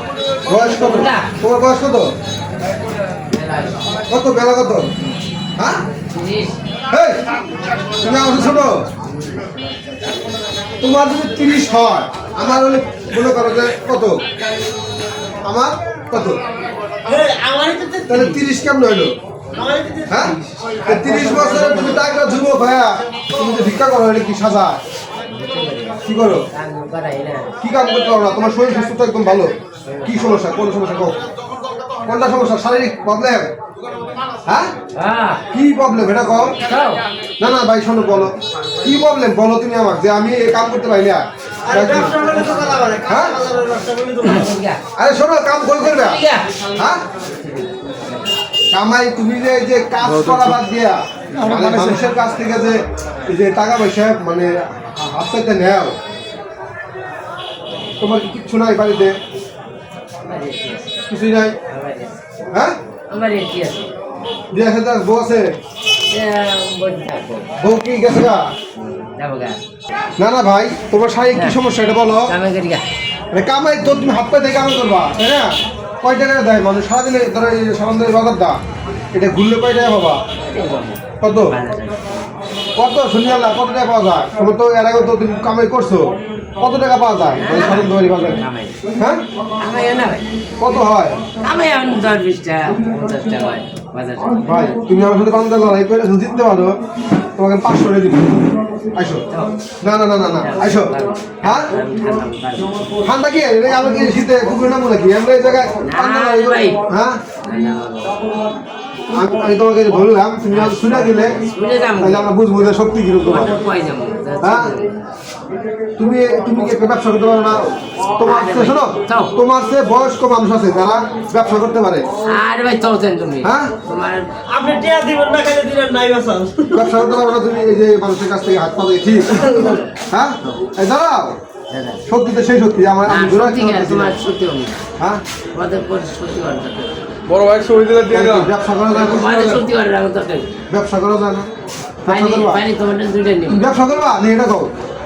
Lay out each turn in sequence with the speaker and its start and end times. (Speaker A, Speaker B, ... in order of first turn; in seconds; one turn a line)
Speaker A: 0.5-2.1
Speaker B: 0.5-1.3
Speaker B: 3.3-4.0
Speaker A: 4.1-4.9
Speaker A: 5.6-5.8
Speaker B: 6.1-6.5
Speaker A: 6.9-7.2
Speaker A: 7.9-8.8
Speaker B: 8.5-10.3
Speaker A: 10.8-14.2
Speaker A: 15.4-16.4
Speaker C: 17.0-18.4
Speaker A: 18.1-19.1
Speaker C: 19.5-22.0
Speaker A: 20.1-24.8
Speaker B: 25.3-27.6
Speaker A: 26.0-26.4
Speaker A: 27.6-29.5
Speaker B: 29.9-30.3
Speaker A: 30.0-31.2
Speaker A: 32.1-33.5
Speaker A: 34.5-34.7
Speaker B: 34.9-35.4
Speaker A: 35.5-36.6
Speaker B: 36.6-37.0
Speaker A: 37.4-42.2
Speaker C: 41.7-44.5
Speaker A: 43.0-43.3
Speaker B: 44.2-44.8
Speaker A: 45.0-46.2
Speaker B: 45.8-48.4
Speaker A: 46.7-47.0
Speaker A: 48.7-55.9
Speaker D: 50.0-50.6
Speaker D: 51.4-52.0
Speaker A: 58.0-59.1
Speaker B: 60.2-60.9
Speaker A: 61.1-61.5
Speaker B: 61.7-62.1
Speaker B: 63.1-63.9
Speaker A: 64.5-65.5
Speaker B: 66.1-67.5
Speaker A: 67.6-68.4
Speaker B: 68.8-69.6
Speaker A: 70.2-72.3
Speaker B: 72.2-72.8
Speaker A: 73.3-78.6
Speaker A: 79.1-80.2
Speaker B: 80.4-82.3
Speaker A: 81.2-81.5
Speaker A: 82.8-88.4
Speaker B: 87.3-88.8
Speaker A: 89.0-89.2
Speaker B: 89.6-90.3
Speaker A: 90.6-91.2
Speaker B: 91.4-94.6
Speaker A: 94.4-96.8
Speaker A: 97.3-99.2
Speaker B: 99.3-99.6
Speaker A: 99.8-101.7
Speaker B: 100.4-103.0
Speaker A: 103.0-107.2
Speaker B: 105.8-106.8
Speaker B: 107.4-108.2
Speaker A: 109.1-111.4
Speaker B: 110.5-115.0
Speaker A: 112.0-113.6
Speaker A: 114.4-114.7
Speaker A: 116.0-122.1
Speaker B: 118.2-119.3
Speaker B: 122.2-124.3
Speaker A: 123.4-123.7
Speaker C: 124.5-127.0
Speaker A: 126.7-129.5
Speaker C: 129.3-129.8
Speaker B: 129.4-129.9
Speaker A: 130.1-131.4
Speaker B: 131.7-132.0
Speaker A: 132.1-134.2
Speaker B: 133.1-134.8
Speaker B: 135.5-137.0
Speaker D: 137.3-138.5
Speaker A: 138.1-139.6
Speaker B: 138.9-140.6
Speaker A: 140.7-141.5
Speaker A: 142.0-142.6
Speaker B: 142.1-143.6
Speaker A: 143.5-144.7